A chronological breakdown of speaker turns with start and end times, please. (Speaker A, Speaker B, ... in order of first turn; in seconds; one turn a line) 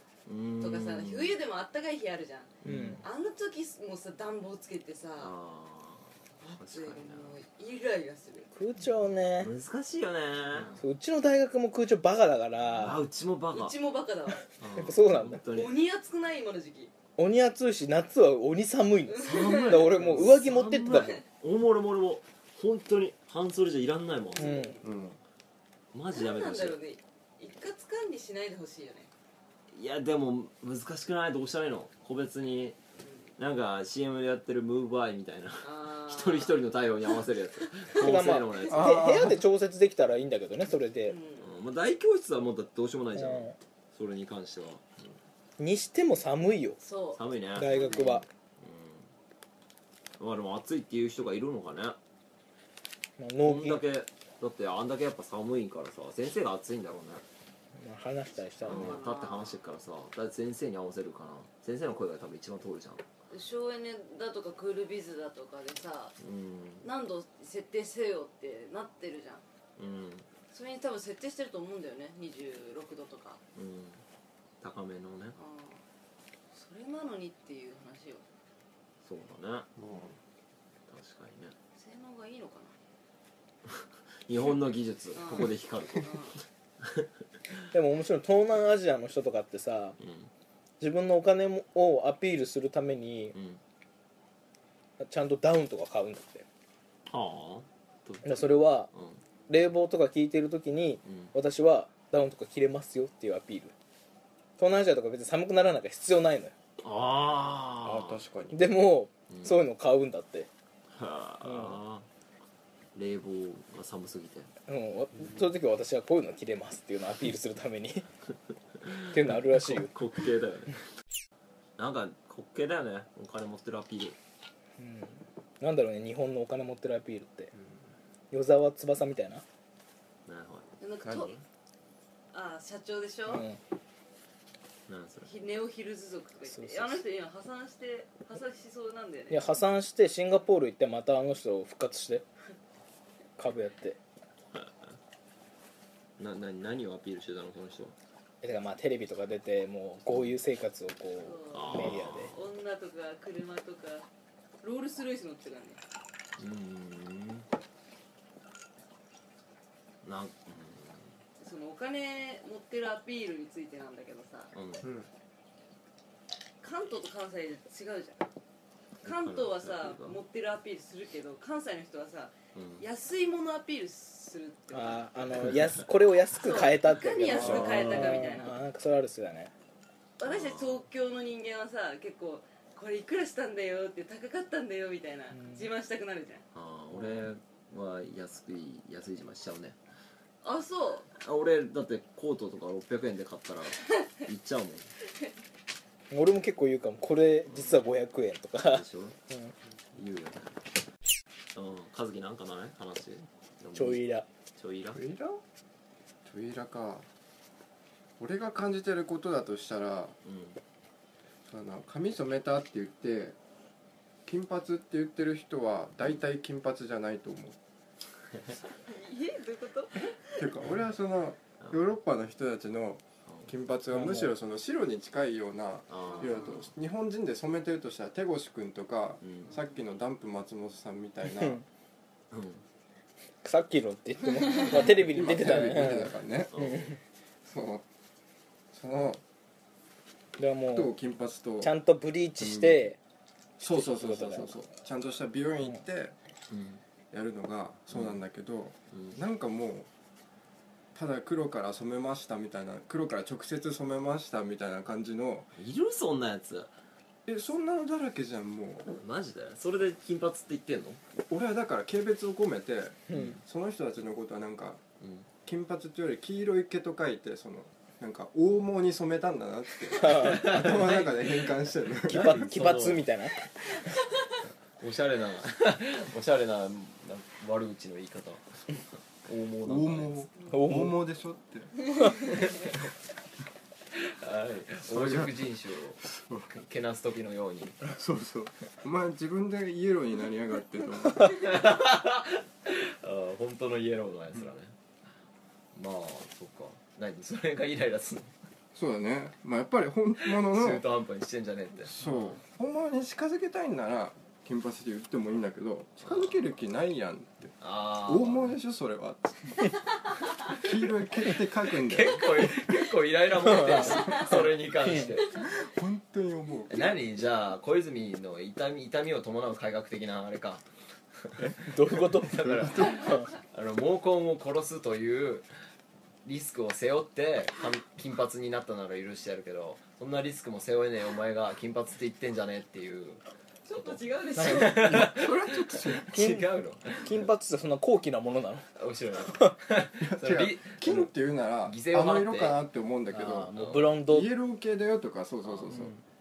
Speaker A: 0.3-1.4
Speaker B: 0.6-5.3
Speaker A: 2.6-3.0
Speaker C: 2.6-3.0
Speaker A: 5.2-7.3
Speaker B: 6.4-8.5
Speaker C: 8.5-9.5
Speaker A: 9.4-10.8
Speaker C: 10.8-13.0
Speaker A: 12.7-13.8
Speaker B: 13.5-14.4
Speaker A: 14.6-15.8
Speaker C: 14.7-15.4
Speaker B: 15.4-16.9
Speaker C: 17.2-21.2
Speaker B: 19.1-19.9
Speaker A: 19.2-24.7
Speaker B: 20.9-21.2
Speaker B: 24.4-24.8
Speaker C: 24.4-24.8
Speaker D: 24.8-25.2
Speaker A: 25.9-26.8
Speaker B: 26.1-29.1
Speaker A: 29.7-32.8
Speaker A: 33.4-38.9
Speaker B: 35.6-36.6
Speaker C: 38.0-41.2
Speaker D: 38.7-39.4
Speaker B: 41.1-41.5
Speaker A: 41.4-44.9
Speaker C: 43.2-43.6
Speaker C: 45.6-46.8
Speaker B: 46.8-48.2
Speaker A: 47.1-49.1
Speaker C: 47.5-48.2
Speaker A: 50.2-52.0
Speaker C: 53.2-53.8
Speaker A: 53.4-57.2
Speaker C: 57.8-59.0
Speaker A: 58.6-63.0
Speaker B: 58.6-59.6
Speaker B: 63.3-66.2
Speaker A: 66.2-66.9
Speaker B: 66.8-69.4
Speaker A: 69.8-70.3
Speaker B: 70.5-73.4
Speaker A: 73.5-74.0
Speaker A: 74.6-75.4
Speaker B: 75.4-75.8
Speaker B: 76.5-78.2
Speaker A: 79.0-79.7
Speaker D: 79.8-80.2
Speaker A: 80.9-81.6
Speaker B: 81.8-82.8
Speaker A: 83.7-87.1
Speaker B: 85.2-86.4
Speaker C: 87.7-90.0
Speaker A: 90.0-90.3
Speaker C: 90.8-93.3
Speaker A: 93.3-93.6
Speaker C: 95.0-96.5
Speaker A: 97.1-99.2
Speaker C: 98.2-98.9
Speaker C: 99.5-103.7
Speaker A: 101.0-101.3
Speaker C: 104.6-106.5
Speaker A: 106.8-108.2
Speaker D: 107.8-108.6
Speaker C: 108.5-110.5
Speaker A: 109.3-109.5
Speaker A: 110.9-112.1
Speaker C: 111.4-111.8
Speaker A: 113.0-114.5
Speaker C: 114.7-118.1
Speaker A: 118.8-120.8
Speaker C: 119.1-119.9
Speaker A: 121.8-124.2
Speaker C: 124.8-127.5
Speaker C: 128.3-129.4
Speaker A: 130.3-131.2
Speaker B: 130.8-131.3
Speaker D: 131.0-131.3
Speaker B: 132.3-133.4
Speaker C: 133.3-133.6
Speaker A: 134.9-135.3
Speaker B: 135.2-139.4
Speaker C: 136.5-137.0
Speaker C: 139.3-142.2
Speaker C: 143.4-144.0
Speaker A: 144.5-145.0
Speaker A: 146.2-147.9
Speaker C: 148.4-152.3
Speaker B: 151.2-154.1
Speaker A: 151.5-152.3
Speaker B: 154.6-155.8
Speaker A: 156.4-157.5
Speaker A: 160.0-161.1
Speaker B: 161.4-164.5
Speaker A: 164.5-164.9
Speaker D: 164.8-165.1
Speaker B: 166.6-168.2
Speaker A: 169.0-170.2
Speaker B: 169.0-175.5
Speaker A: 172.6-172.8
Speaker C: 174.7-179.5
Speaker B: 176.3-178.6
Speaker A: 177.3-178.4
Speaker B: 180.2-186.4
Speaker A: 180.2-180.8
Speaker C: 185.4-185.7
Speaker A: 186.5-189.8
Speaker B: 190.4-191.1
Speaker A: 191.2-194.9
Speaker C: 196.1-199.5
Speaker A: 197.5-197.8
Speaker A: 198.6-199.2
Speaker A: 199.9-200.6
Speaker A: 201.6-204.0
Speaker C: 203.7-204.3
Speaker A: 204.6-205.0
Speaker D: 204.9-205.4
Speaker D: 206.3-207.1
Speaker D: 208.2-210.2
Speaker A: 210.2-210.6
Speaker D: 211.5-213.4
Speaker D: 214.3-217.6
Speaker B: 218.8-220.4
Speaker D: 220.3-231.6
Speaker C: 223.9-224.3
Speaker A: 225.9-226.7
Speaker A: 229.2-229.5
Speaker C: 231.3-231.6
Speaker A: 232.3-232.6
Speaker C: 233.4-237.0
Speaker D: 234.5-236.5
Speaker A: 236.5-236.9
Speaker D: 237.4-237.8
Speaker D: 238.7-239.2
Speaker C: 240.4-240.9
Speaker D: 240.7-241.7
Speaker C: 241.6-243.0
Speaker D: 242.4-242.8
Speaker D: 243.6-246.1
Speaker C: 243.7-244.5
Speaker A: 246.5-246.8
Speaker D: 247.1-249.9
Speaker A: 248.9-249.2
Speaker D: 250.9-255.5
Speaker A: 255.6-256.7
Speaker D: 257.3-258.9
Speaker A: 258.9-261.0
Speaker D: 261.3-264.8
Speaker C: 263.1-263.4
Speaker A: 265.0-265.3
Speaker D: 265.4-272.6
Speaker C: 270.0-270.5
Speaker A: 270.0-273.1
Speaker C: 272.1-273.4
Speaker A: 274.8-280.3
Speaker D: 279.6-282.2
Speaker C: 280.5-281.0
Speaker A: 283.9-287.8
Speaker D: 284.9-285.4
Speaker D: 286.1-286.5
Speaker D: 287.9-291.4
Speaker A: 291.2-294.7
Speaker A: 295.7-298.4
Speaker D: 298.7-300.9
Speaker A: 300.2-302.1
Speaker D: 301.9-309.7
Speaker A: 306.1-306.5
Speaker A: 307.6-308.6
Speaker D: 310.5-312.5
Speaker A: 311.7-315.4
Speaker C: 313.5-314.1
Speaker D: 313.8-314.5
Speaker D: 315.1-316.8
Speaker A: 316.7-320.6
Speaker A: 321.2-325.5
Speaker C: 321.6-323.3
Speaker D: 322.3-323.2
Speaker A: 326.2-333.2
Speaker B: 333.6-335.1
Speaker A: 333.8-337.3
Speaker C: 334.4-334.8
Speaker D: 334.8-336.2
Speaker C: 336.1-336.5
Speaker C: 337.0-338.7
Speaker A: 338.8-341.1
Speaker D: 340.0-345.9
Speaker A: 341.6-342.6
Speaker C: 343.1-344.3
Speaker A: 343.6-343.9
Speaker A: 345.4-345.9